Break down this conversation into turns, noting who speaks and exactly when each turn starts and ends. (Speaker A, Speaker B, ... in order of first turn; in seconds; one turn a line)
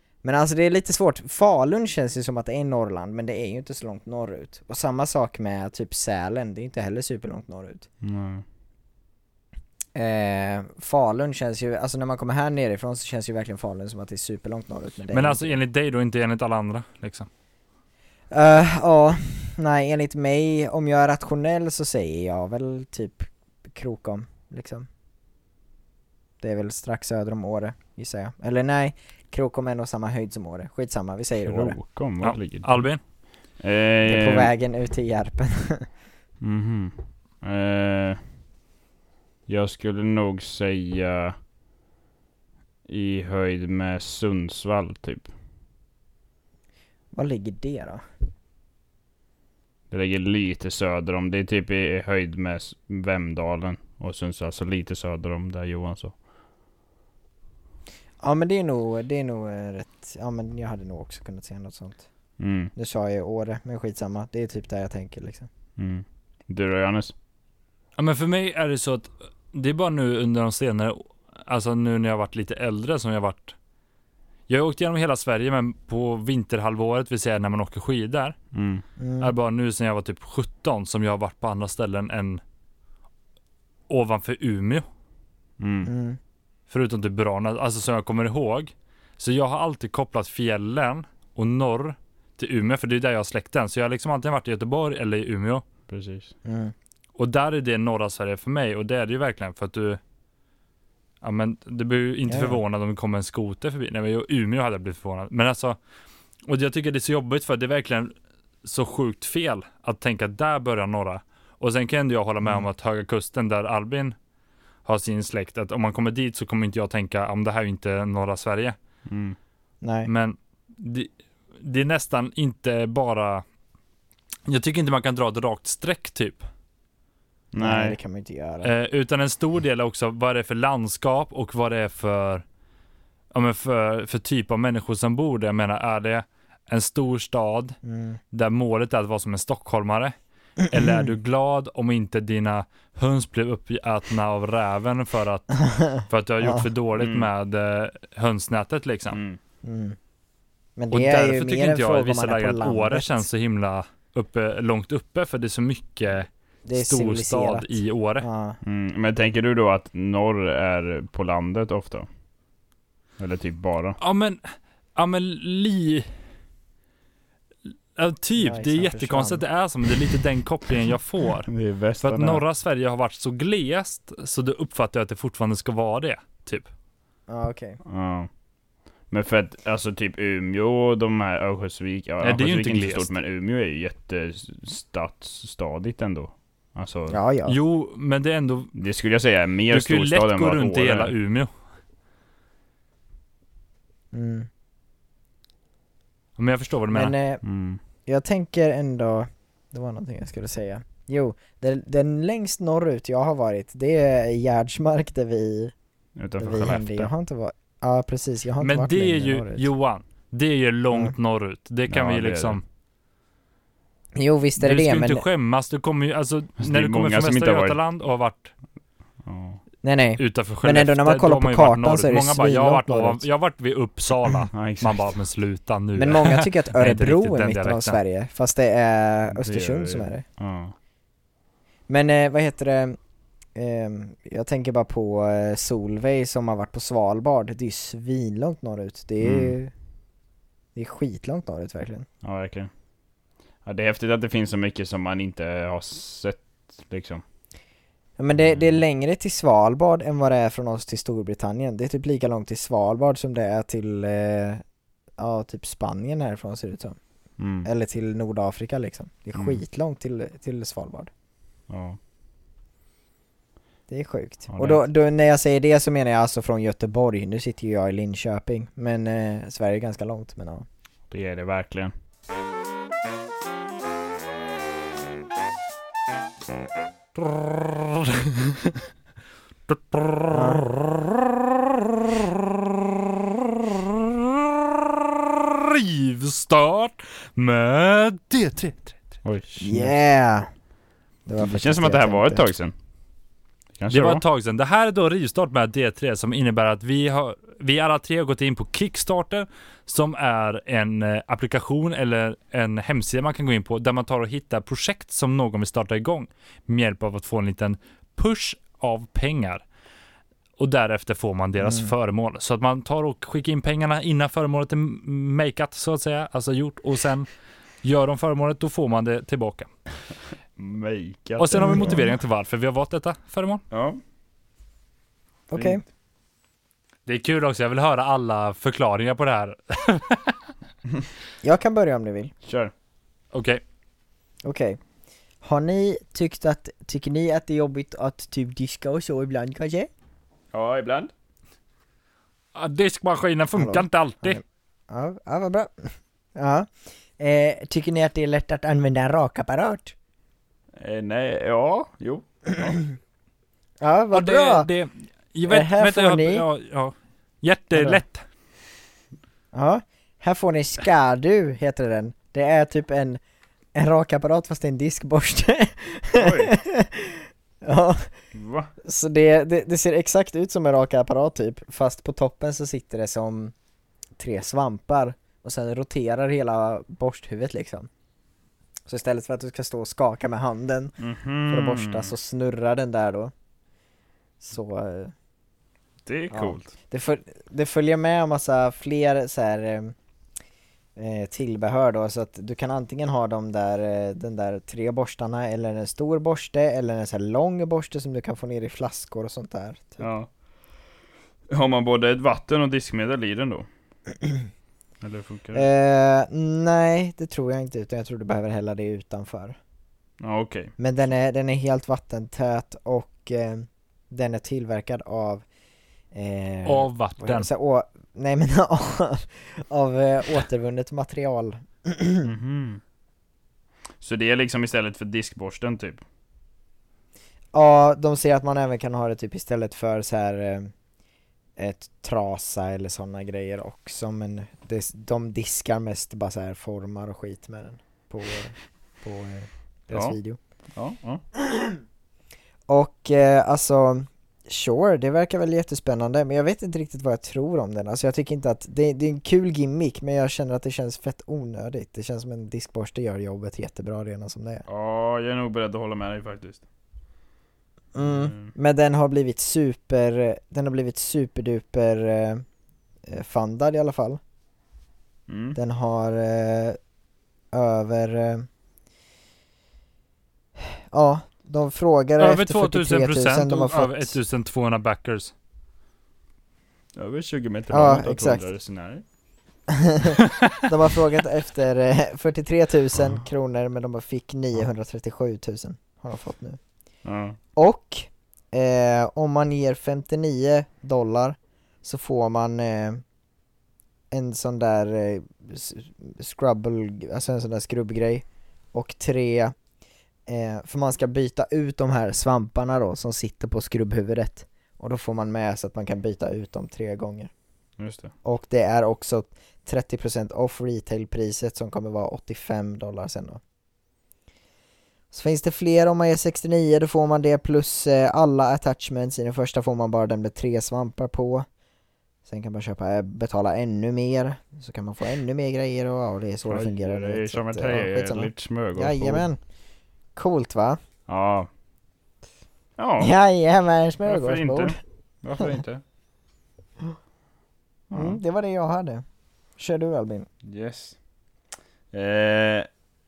Speaker A: 0.2-7.9
Speaker B: 8.0-8.4
Speaker A: 9.9-15.6
Speaker C: 15.1-17.3
Speaker A: 18.3-24.9
Speaker A: 26.4-31.8
Speaker B: 31.4-32.9
Speaker C: 32.2-33.0
Speaker B: 33.6-34.5
Speaker A: 34.1-35.9
Speaker B: 36.4-38.2
Speaker B: 39.5-41.4
Speaker B: 42.9-45.3
Speaker A: 47.1-48.0
Speaker B: 49.9-56.1
Speaker A: 58.2-62.0
Speaker B: 62.4-62.7
Speaker A: 62.8-65.5
Speaker B: 65.8-67.1
Speaker C: 68.0-73.5
Speaker C: 74.5-78.4
Speaker B: 78.5-78.8
Speaker A: 79.0-79.3
Speaker C: 79.2-82.4
Speaker C: 83.9-84.8
Speaker B: 85.6-85.9
Speaker A: 85.9-86.2
Speaker C: 86.7-95.6
Speaker B: 95.9-96.3
Speaker A: 96.5-96.7
Speaker C: 97.2-100.0
Speaker C: 101.2-105.8
Speaker A: 102.3-102.6
Speaker C: 106.5-108.1
Speaker C: 108.6-114.2
Speaker C: 114.9-118.8
Speaker B: 119.1-119.4
Speaker A: 119.8-120.1
Speaker C: 120.1-123.4
Speaker C: 124.5-126.4
Speaker B: 127.5-128.0
Speaker A: 127.6-128.7
Speaker C: 128.6-132.4
Speaker C: 133.3-137.8
Speaker A: 137.8-138.2
Speaker C: 138.3-140.1
Speaker C: 140.7-149.2
Speaker A: 140.7-141.1
Speaker A: 145.7-146.7
Speaker B: 147.0-147.3
Speaker B: 149.1-149.4
Speaker A: 149.6-150.0
Speaker A: 150.8-153.3
Speaker C: 150.9-158.3
Speaker A: 156.7-158.6
Speaker B: 158.6-162.1
Speaker B: 163.2-164.0
Speaker C: 164.0-166.1
Speaker C: 168.0-176.7
Speaker A: 168.4-169.4
Speaker B: 171.5-172.4
Speaker A: 177.3-177.8
Speaker B: 177.8-178.3
Speaker B: 179.1-187.2
Speaker C: 182.2-183.1
Speaker A: 187.1-187.6
Speaker C: 187.5-188.7
Speaker B: 188.8-191.1
Speaker C: 189.7-191.5
Speaker A: 194.1-194.5
Speaker C: 196.4-197.1
Speaker A: 196.9-197.4
Speaker B: 197.4-197.8
Speaker A: 198.1-205.7
Speaker B: 206.2-207.1
Speaker A: 206.4-209.7
Speaker C: 208.6-212.6
Speaker B: 211.9-212.6
Speaker A: 214.2-215.2
Speaker C: 214.6-218.5
Speaker B: 216.6-217.8
Speaker B: 219.2-219.6
Speaker A: 219.8-223.2
Speaker C: 220.2-228.0
Speaker B: 224.5-225.1
Speaker A: 226.0-230.2
Speaker B: 229.3-230.7
Speaker A: 231.9-233.0
Speaker A: 233.6-239.7
Speaker B: 239.2-239.6
Speaker A: 240.8-242.1
Speaker B: 242.2-242.7
Speaker B: 243.7-247.2
Speaker A: 248.2-254.6
Speaker B: 248.4-248.8
Speaker A: 255.2-257.0
Speaker B: 257.4-257.7
Speaker A: 257.6-261.1
Speaker B: 259.4-259.6
Speaker B: 261.7-262.0
Speaker A: 263.9-270.7
Speaker B: 264.5-264.8
Speaker B: 271.1-271.9
Speaker C: 277.2-278.7
Speaker C: 279.7-289.0
Speaker A: 280.3-280.7
Speaker B: 289.2-289.9
Speaker A: 289.6-290.5
Speaker A: 291.3-292.5
Speaker B: 291.4-292.7
Speaker B: 293.8-294.2
Speaker C: 293.9-309.6
Speaker C: 310.6-317.3
Speaker A: 311.6-311.9
Speaker C: 317.8-319.7
Speaker B: 320.6-322.0
Speaker C: 321.4-323.6
Speaker A: 321.6-322.1
Speaker B: 323.7-324.0
Speaker A: 325.5-325.8
Speaker B: 325.5-325.8
Speaker C: 327.1-330.4
Speaker A: 331.4-332.3
Speaker B: 332.4-332.7
Speaker C: 333.3-333.6
Speaker A: 334.4-334.8
Speaker A: 335.4-339.9
Speaker B: 340.5-341.1
Speaker C: 342.6-344.4
Speaker A: 343.6-349.9
Speaker B: 350.8-352.2
Speaker A: 352.6-352.8
Speaker A: 353.8-354.7
Speaker C: 354.1-358.2
Speaker A: 355.5-356.4
Speaker A: 357.8-358.0
Speaker A: 359.5-363.2
Speaker A: 363.8-368.1
Speaker B: 366.1-366.6
Speaker B: 368.3-368.7
Speaker A: 368.8-373.5
Speaker A: 374.2-377.9
Speaker A: 378.9-381.0
Speaker B: 381.0-382.1
Speaker A: 381.5-383.3
Speaker A: 384.4-385.1
Speaker B: 386.1-386.7
Speaker A: 386.3-389.9
Speaker A: 391.0-400.1
Speaker B: 400.0-400.3
Speaker B: 401.5-403.7
Speaker A: 404.2-404.5
Speaker B: 405.0-405.7
Speaker A: 405.5-409.6
Speaker B: 410.2-410.7
Speaker A: 410.8-415.4
Speaker A: 416.1-422.3
Speaker C: 416.6-417.5
Speaker B: 422.2-422.8
Speaker B: 424.0-426.0
Speaker A: 427.5-430.7
Speaker A: 431.6-440.4
Speaker B: 440.7-441.2
Speaker A: 441.4-441.8
Speaker A: 442.7-454.6
Speaker B: 454.7-456.6
Speaker A: 457.9-462.4
Speaker B: 458.0-458.5
Speaker A: 463.1-464.2
Speaker B: 465.3-465.6
Speaker A: 465.6-466.8
Speaker A: 467.5-468.5
Speaker A: 470.7-474.2
Speaker C: 472.2-475.3
Speaker B: 477.0-479.0
Speaker A: 477.7-478.4
Speaker A: 479.7-486.6
Speaker B: 487.1-487.4
Speaker A: 487.6-493.0
Speaker A: 494.1-499.6
Speaker A: 500.3-507.3
Speaker B: 507.8-508.1
Speaker A: 508.2-513.4
Speaker A: 515.1-521.5
Speaker A: 522.3-529.4
Speaker B: 526.5-529.3
Speaker A: 530.2-530.8
Speaker B: 531.1-531.5
Speaker B: 532.8-533.1
Speaker A: 533.0-534.8
Speaker B: 534.0-535.8
Speaker B: 537.9-538.2
Speaker A: 538.0-539.0
Speaker A: 539.6-540.3
Speaker B: 540.4-541.0
Speaker B: 541.9-542.7